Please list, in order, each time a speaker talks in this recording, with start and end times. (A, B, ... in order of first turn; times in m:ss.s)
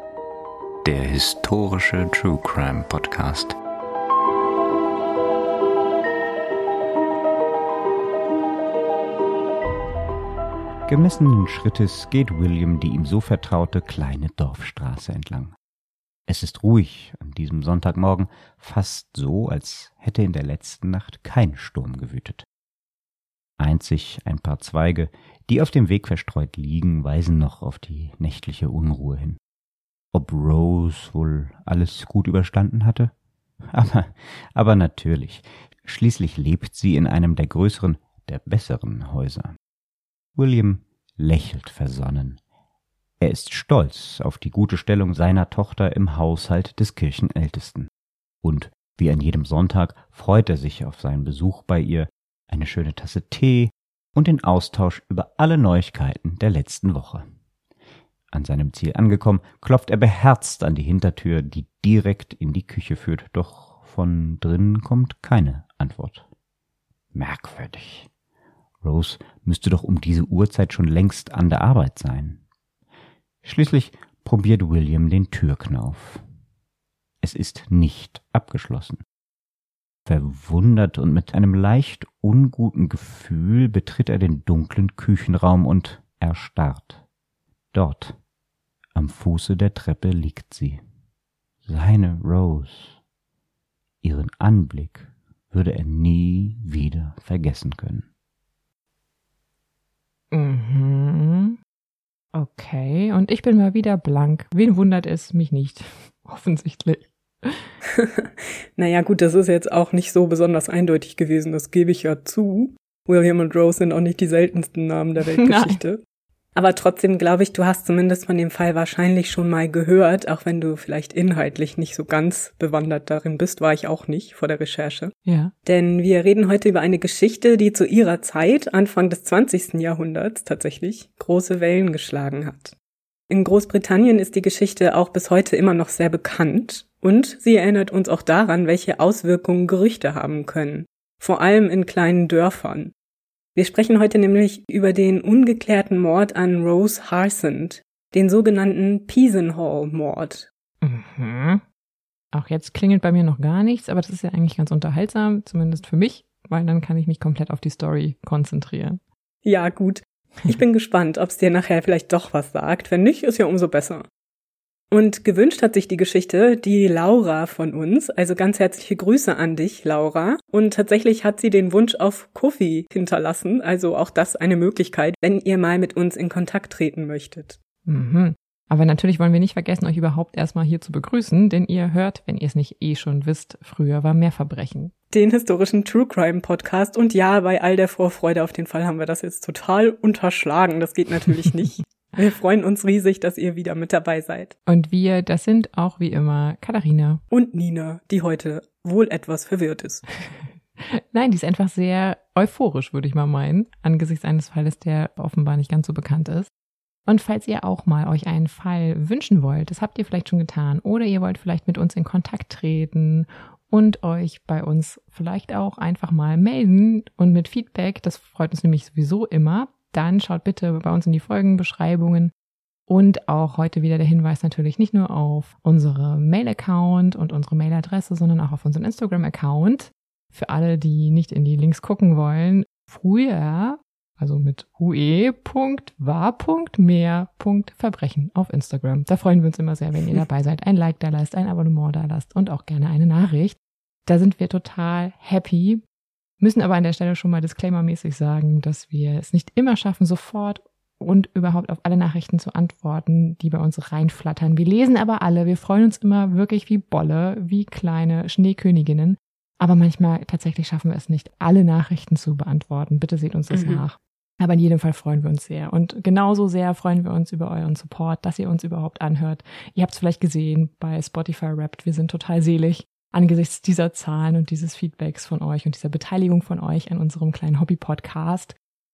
0:00.8-0:03.6 A
0:10.9-0:15.5 A
0:16.3-0:22.4 A
0:23.6-0:29.4 A
0:30.1-0:33.1 A
0:33.7-0:39.5 A
0:40.4-0:42.4 A
0:43.2-0:47.9 A
0:48.4-0:57.2 A
0:58.3-1:06.2 A
1:07.1-1:08.1 A
1:08.8-1:12.4 A
1:13.4-1:16.2 A
1:17.2-1:19.0 A
1:20.0-1:27.0 A
1:27.7-1:28.2 A
1:28.9-1:30.8 A
1:31.6-1:33.0 A
1:34.0-1:38.0 A
1:40.3-1:41.6 B
1:42.3-1:47.7 B
1:47.9-1:56.0 C
1:55.4-1:55.8 B
1:56.5-2:12.7 C
2:05.2-2:05.5 B
2:13.3-2:22.9 C
2:23.5-2:30.5 C
2:30.8-2:31.6 B
2:32.3-2:39.0 B
2:39.4-2:44.0 C
2:44.9-2:57.6 C
2:57.8-3:04.9 B
3:05.1-3:14.6 C
3:14.7-3:17.2 B
3:17.3-3:20.1 C
3:20.3-3:26.5 B
3:27.1-3:42.3 B
3:42.9-4:05.8 B
4:06.4-4:38.6 B
4:23.5-4:23.9 C